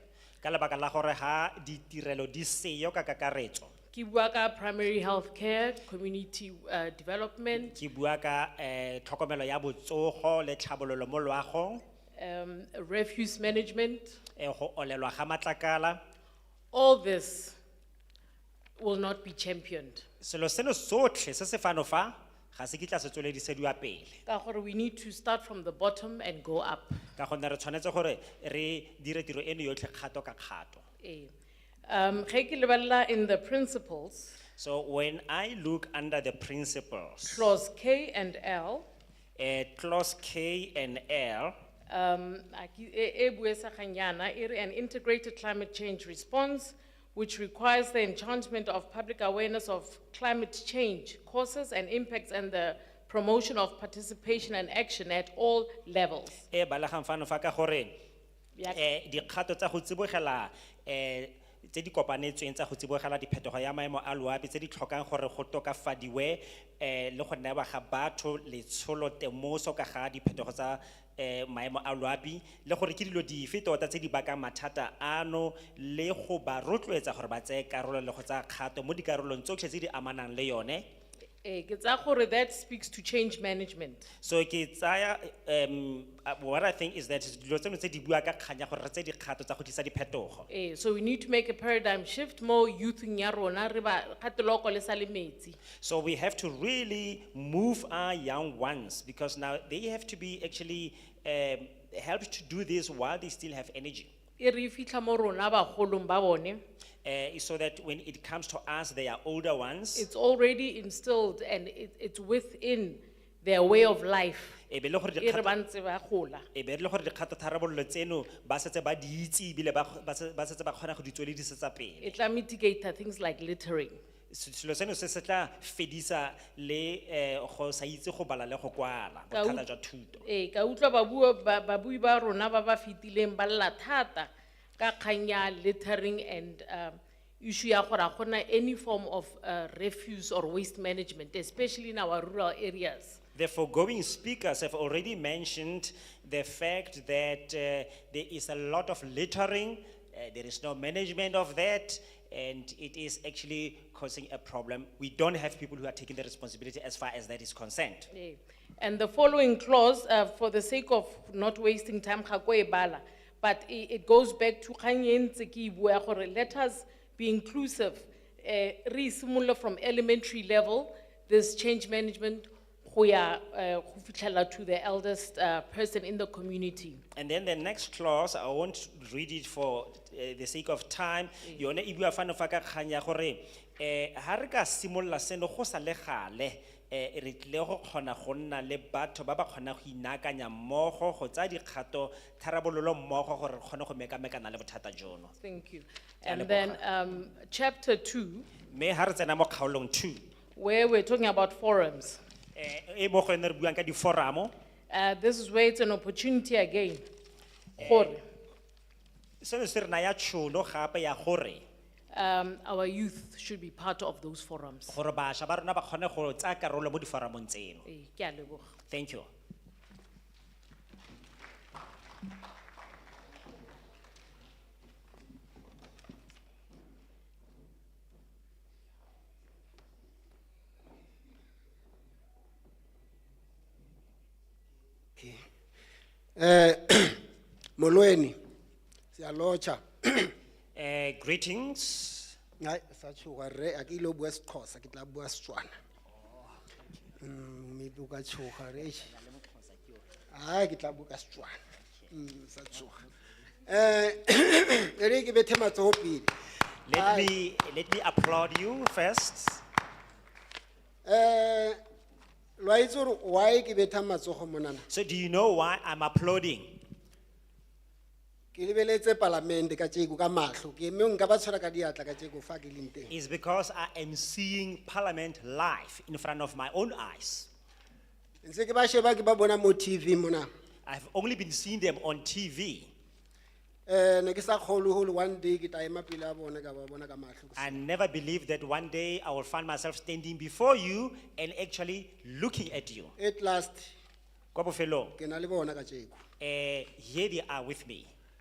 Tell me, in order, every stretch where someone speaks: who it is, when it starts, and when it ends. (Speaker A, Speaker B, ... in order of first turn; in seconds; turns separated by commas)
Speaker A: 0.4-3.7, Speaker B: 3.9-7.8, Speaker A: 7.6-11.8, Speaker B: 12.2-14.2, Speaker A: 14.4-16.0, Speaker B: 16.7-17.6, Speaker B: 18.8-20.1, Speaker A: 20.2-24.2, Speaker B: 24.3-27.0, Speaker A: 27.2-30.8, Speaker B: 31.0-31.3, Speaker B: 31.9-34.4, Speaker A: 34.6-37.5, Speaker B: 37.2-38.9, Speaker A: 39.4-41.6, Speaker B: 41.9-56.4, Speaker A: 56.5-57.9, Speaker A: 58.7-80.9, Speaker B: 81.4-84.1, Speaker A: 84.2-90.5, Speaker B: 90.5-95.6, Speaker A: 95.8-104.1, Speaker B: 104.4-106.6, Speaker A: 107.0-110.1, Speaker B: 110.0-114.6, Speaker A: 114.7-115.5, Speaker B: 115.2-116.5, Speaker A: 116.5-122.2, Speaker B: 122.0-124.0, Speaker A: 124.3-130.2, Speaker B: 129.3-129.6, Speaker B: 130.2-143.2, Speaker A: 143.4-158.1, Speaker B: 158.1-177.0, Speaker A: 177.2-195.3, Speaker B: 195.4-198.5, Speaker A: 196.2-196.8, Speaker A: 198.7-200.2, Speaker B: 200.6-202.2, Speaker A: 202.6-204.5, Speaker B: 204.9-207.0, Speaker A: 207.8-208.2, Speaker B: 207.8-208.2, Speaker A: 209.4-211.6, Speaker B: 212.1-215.0, Speaker A: 214.9-217.8, Speaker B: 217.9-218.8, Speaker A: 218.9-219.3, Speaker C: 236.4-237.2, Speaker C: 237.8-238.4, Speaker C: 239.2-240.3, Speaker A: 240.8-242.3, Speaker C: 242.6-245.7, Speaker C: 247.2-249.1, Speaker A: 249.0-250.1, Speaker C: 250.3-251.6, Speaker C: 252.1-253.1, Speaker C: 253.7-256.3, Speaker A: 256.9-259.6, Speaker C: 256.9-257.3, Speaker C: 261.1-261.8, Speaker C: 262.6-264.9, Speaker A: 264.9-266.8, Speaker C: 268.5-273.1, Speaker A: 273.1-277.5, Speaker C: 278.4-280.5, Speaker A: 280.9-282.9, Speaker C: 283.9-287.8, Speaker A: 287.6-293.1, Speaker C: 293.2-293.9, Speaker A: 294.5-295.1, Speaker C: 295.2-296.2, Speaker A: 296.4-298.1